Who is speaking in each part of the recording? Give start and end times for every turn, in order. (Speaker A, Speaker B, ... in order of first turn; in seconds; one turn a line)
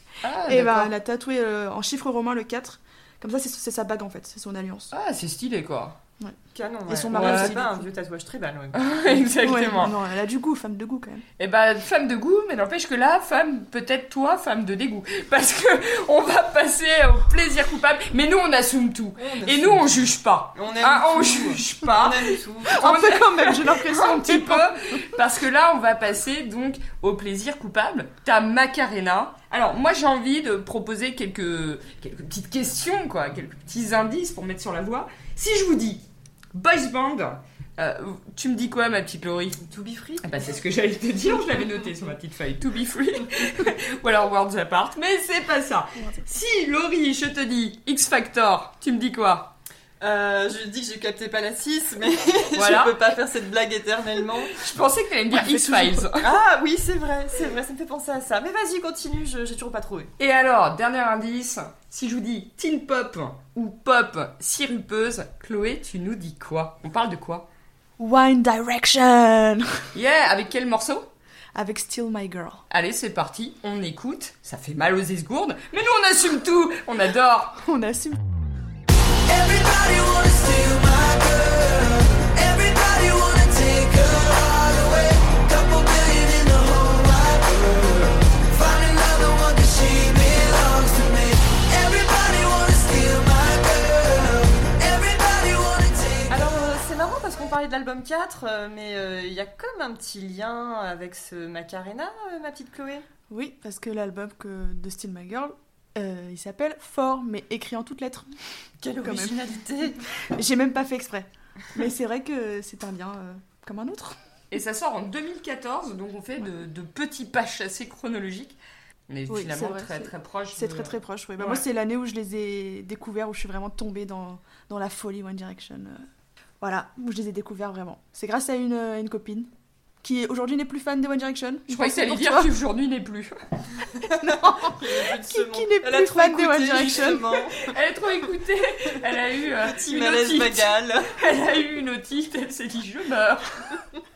Speaker A: 0.2-0.9
Speaker B: 0.5-4.9
Speaker A: 4.9-6.0
Speaker C: 6.5-9.3
Speaker B: 6.9-7.9
Speaker A: 7.1-7.6
Speaker A: 8.7-10.0
Speaker B: 9.4-11.2
Speaker A: 11.4-39.6
Speaker C: 19.2-19.9
Speaker C: 20.6-22.8
Speaker B: 22.7-25.2
Speaker C: 39.6-40.5
Speaker A: 40.2-49.5
Speaker C: 50.0-54.6
Speaker A: 52.5-53.1
Speaker A: 54.5-56.4
Speaker B: 55.3-56.1
Speaker C: 56.2-60.1
Speaker A: 60.2-67.5
Speaker B: 68.0-69.9
Speaker A: 69.9-71.1
Speaker B: 71.5-72.6
Speaker A: 72.7-77.6
Speaker B: 77.6-78.2
Speaker D: 79.3-96.4
Speaker C: 96.3-103.0
Speaker B: 103.3-108.3
Speaker C: 108.8-110.0
Speaker B: 109.0-109.5
Speaker B: 110.2-114.2
Speaker A: 114.5-118.6
Speaker A: 119.1-121.6
Speaker B: 119.3-126.0
Speaker B: 126.6-129.5
Speaker B: 130.0-132.6
Speaker A: 131.7-133.4
Speaker C: 134.0-137.7
Speaker B: 134.2-137.3
Speaker A: 137.6-143.8
Speaker C: 139.6-141.1